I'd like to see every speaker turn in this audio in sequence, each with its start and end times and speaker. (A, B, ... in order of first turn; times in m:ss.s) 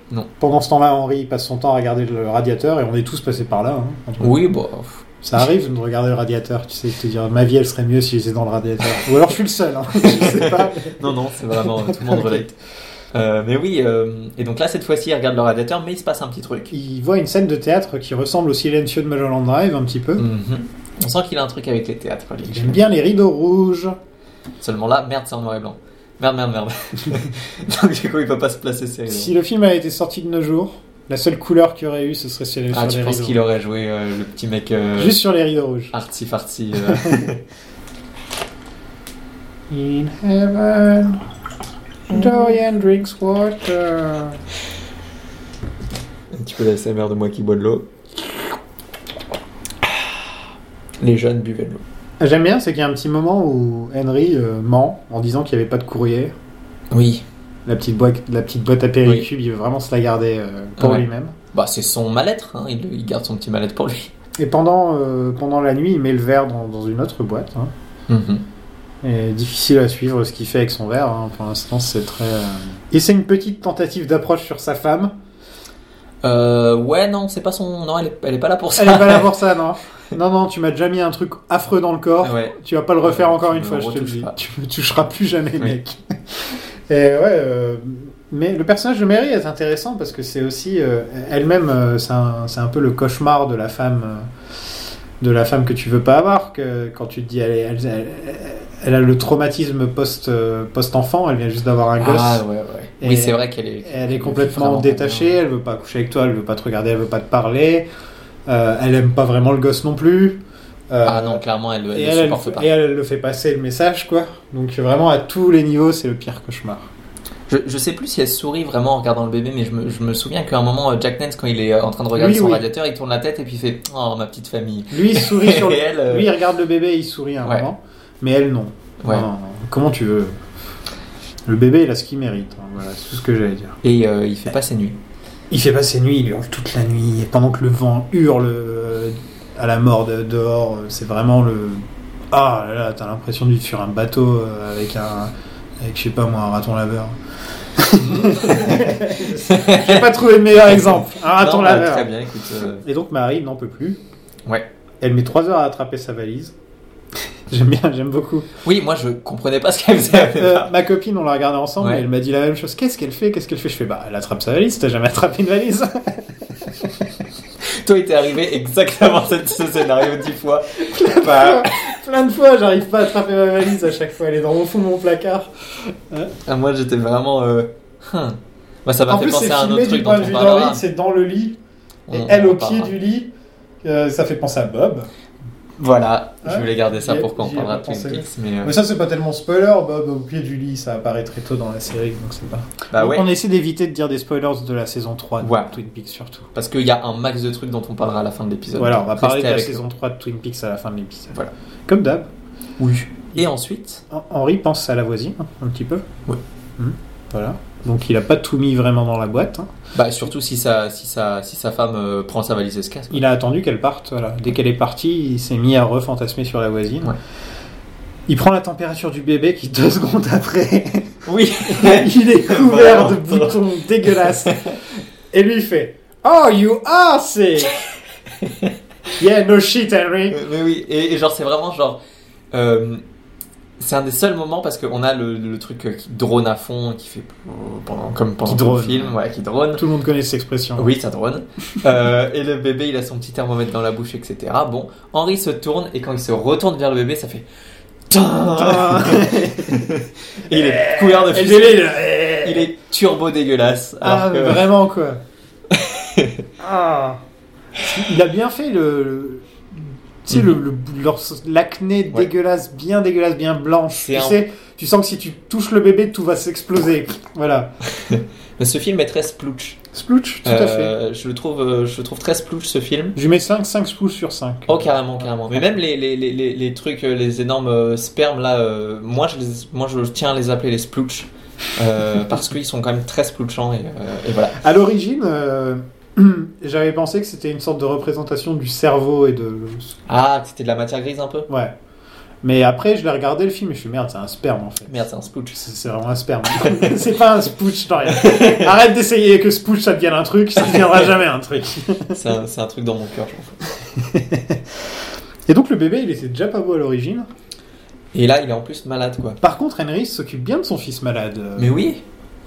0:00.4-0:04.4 A
0:04.2-0:05.1 B
0:05.2-0:12.5 A
0:10.0-0:12.6 B
0:13.1-0:16.7 B
0:16.7-0:20.2 A
0:20.2-0:22.8 B
0:22.4-0:24.0 A
0:24.6-0:29.3 B
0:29.1-0:33.4 A
0:32.7-0:35.2 B
0:35.0-0:35.9 A
0:35.9-0:37.4 B
0:39.7-0:41.2 A
0:42.1-0:44.4 A
0:46.3-0:47.9 B
0:51.0-0:51.8 B
0:52.2-0:56.3 A
0:56.9-0:57.2 B
0:57.7-1:01.3 A
1:00.8-1:04.1 B
1:04.4-1:07.7 A
1:08.1-1:08.4 B
1:09.0-1:15.1 A
1:16.2-1:19.3 B
1:18.8-1:34.3 A
1:22.2-1:24.4 B
1:35.2-1:42.4 A
1:42.0-1:45.4 B
1:43.0-1:47.9 A
1:48.5-1:56.9 A
1:51.0-1:52.7 B
1:57.5-2:06.4 B
2:02.1-2:02.6 A
2:04.9-2:10.4 A
2:07.4-2:07.7 B
2:09.0-2:09.3 B
2:11.5-2:13.8 A
2:13.8-2:15.0 B
2:15.5-2:27.2 A
2:27.8-2:32.1 A
2:28.0-2:32.8 B
2:32.8-2:34.0 A
2:35.0-2:36.6 A
2:37.5-2:38.5 A
2:38.6-2:40.7 B
2:40.1-2:46.7 A
2:41.8-2:42.0 B
2:47.6-2:51.9 B
2:50.9-2:56.3 A
2:56.5-3:00.8 B
2:59.1-3:01.6 A
3:02.1-3:03.0 B
3:02.1-3:03.3 A
3:03.8-3:05.1 A
3:05.8-3:08.8 B
3:06.4-3:16.5 A
3:12.9-3:13.3 B
3:15.4-3:15.8 B
3:16.6-3:19.8 B
3:18.8-3:21.4 A
3:21.9-3:23.4 A
3:23.4-3:24.0 B
3:24.1-3:26.0 A
3:26.8-3:29.7 A
3:29.9-3:33.2 B
3:33.1-3:37.2 A
3:38.3-3:41.2 A
3:41.3-3:44.8 B
3:41.7-3:44.7 A
3:45.3-3:47.7 A
3:48.4-3:48.8 B
3:49.2-3:50.4 A
3:50.3-3:52.0 B
3:52.5-3:53.0 B
3:53.8-3:59.8 B
3:58.4-3:59.2 A
3:59.8-4:00.9 A
4:00.8-4:07.5 B
4:08.1-4:14.7 B
4:08.5-4:09.8 A
4:10.5-4:12.7 A
4:14.0-4:15.2 A
4:15.7-4:16.4 B
4:16.6-4:17.2 A
4:17.8-4:19.5 A
4:20.2-4:27.7 A
4:20.3-4:20.6 B
4:23.9-4:24.4 B
4:27.9-4:29.8 B
4:29.9-4:30.9 A
4:30.4-4:33.2 B
4:33.2-4:35.8 A
4:34.7-4:44.6 B
4:44.6-4:50.0 A
4:50.1-4:51.5 B
4:51.5-4:51.8 A
4:52.4-4:55.0 A
4:54.9-4:55.6 B
4:55.5-5:02.2 A
4:56.6-4:56.9 B
4:58.1-4:58.7 B
5:00.6-5:01.1 B
5:02.1-5:03.6 B
5:04.0-5:04.6 A
5:05.5-5:07.3 A
5:08.1-5:09.4 B
5:09.4-5:11.8 A
5:11.6-5:12.0 B